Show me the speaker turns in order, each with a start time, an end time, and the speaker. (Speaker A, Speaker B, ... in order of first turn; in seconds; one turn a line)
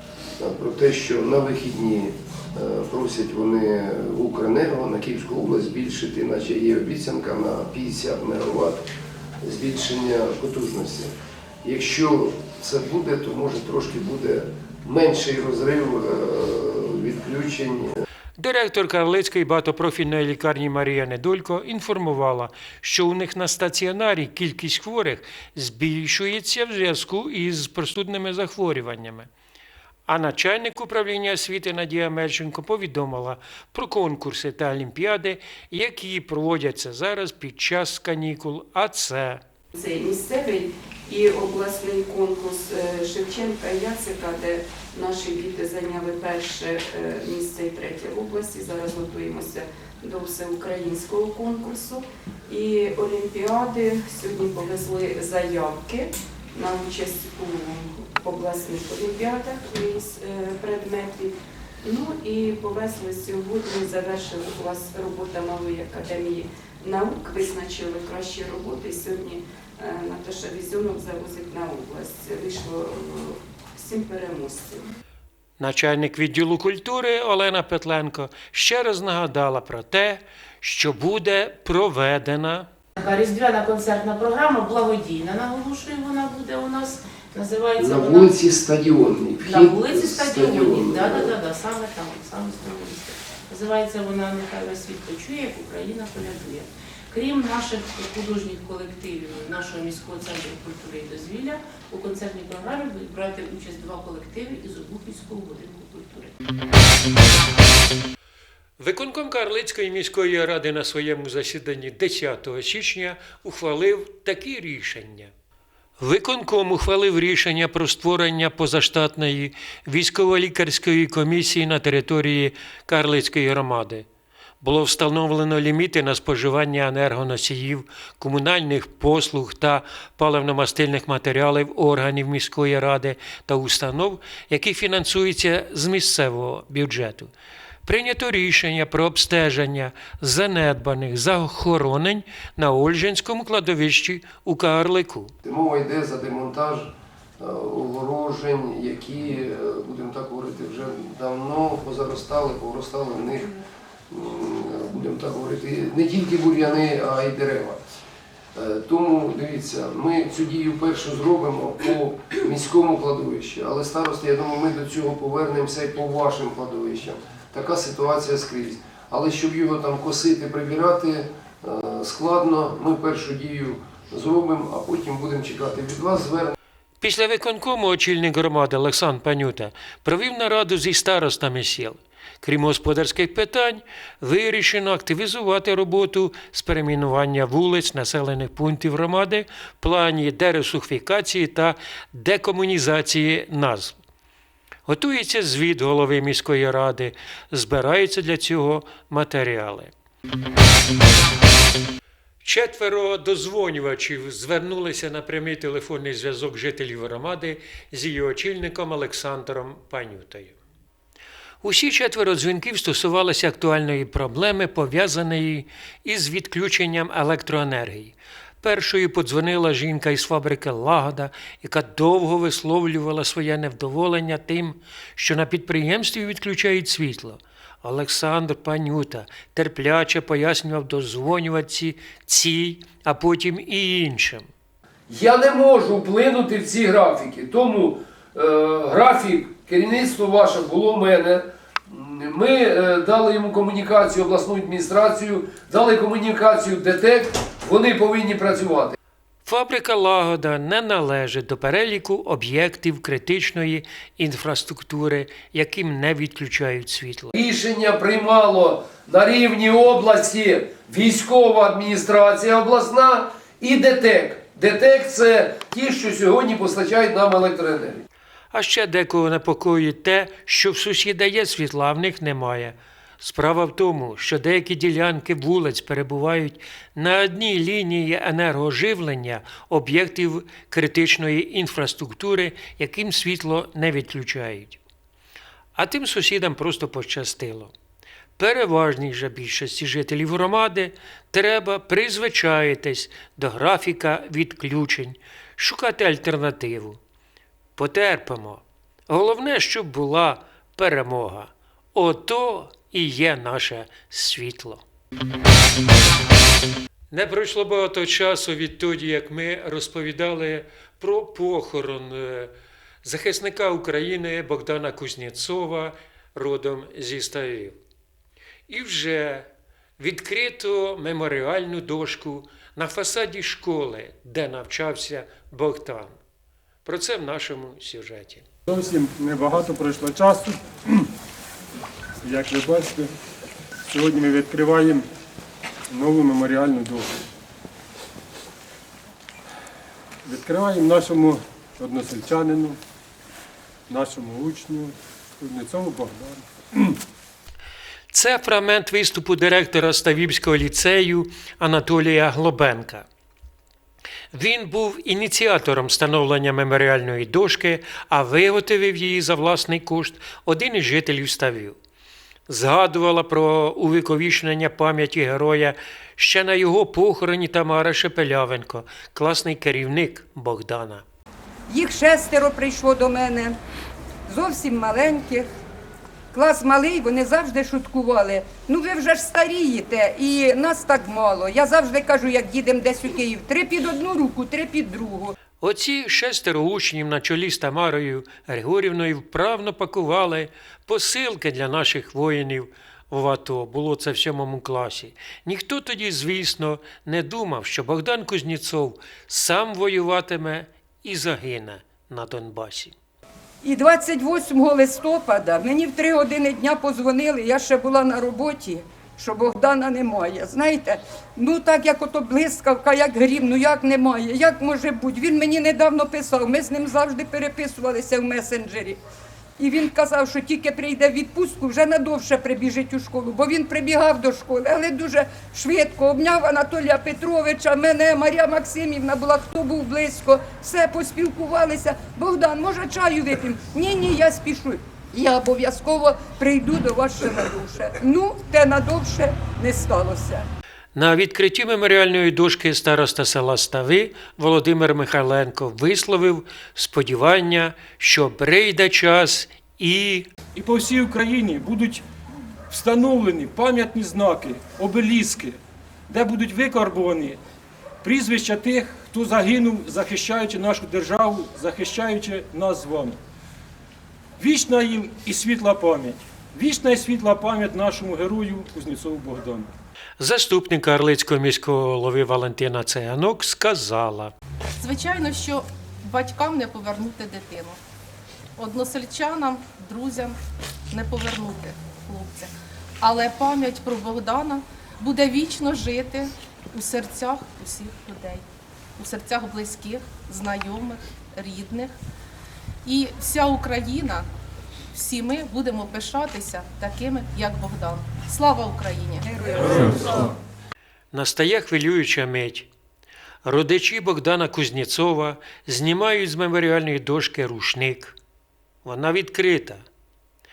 Speaker A: 0.4-8.8
Speaker A: 9.4-11.1
Speaker A: 11.6-17.9
Speaker B: 18.4-29.3
Speaker B: 30.1-39.4
Speaker C: 39.7-74.8
Speaker B: 75.6-82.7
Speaker D: 83.0-88.4
Speaker A: 87.8-91.3
Speaker D: 89.4-106.3
Speaker B: 108.8-115.3
Speaker B: 116.0-124.0
Speaker B: 124.6-137.3
Speaker B: 137.8-145.3
Speaker A: 145.4-153.6
Speaker A: 154.1-157.8
Speaker A: 158.5-176.5
Speaker B: 177.0-194.0
Speaker B: 194.9-199.9
Speaker B: 202.4-210.6
Speaker B: 211.6-234.5
Speaker A: 235.1-248.9
Speaker B: 249.4-257.3
Speaker A: 257.3-268.1
Speaker B: 268.5-284.8
Speaker B: 285.8-287.7
Speaker B: 288.4-297.0
Speaker B: 297.8-304.8
Speaker B: 307.1-317.8
Speaker B: 318.7-319.5
Speaker B: 320.0-326.1
Speaker B: 326.8-328.4
Speaker E: 328.7-331.1
Speaker E: 332.2-333.1
Speaker E: 333.9-335.1
Speaker E: 335.9-337.1
Speaker E: 340.2-342.8
Speaker E: 343.9-347.0
Speaker B: 348.1-353.1
Speaker B: 354.3-361.8
Speaker B: 362.5-371.0
Speaker F: 371.7-373.6
Speaker F: 374.3-375.5
Speaker F: 376.3-385.3
Speaker B: 385.6-402.9
Speaker F: 403.6-419.0
Speaker F: 419.6-440.4
Speaker B: 440.9-450.3
Speaker E: 450.5-452.0
Speaker E: 452.7-457.4
Speaker E: 458.0-463.2
Speaker E: 464.4-469.7
Speaker B: 470.2-474.3
Speaker G: 474.8-477.8
Speaker G: 478.6-480.4
Speaker G: 480.9-488.4
Speaker G: 489.0-491.9
Speaker G: 492.8-494.3
Speaker G: 494.9-499.3
Speaker F: 499.2-500.3
Speaker B: 501.1-502.7
Speaker B: 503.4-508.1
Speaker B: 508.8-509.8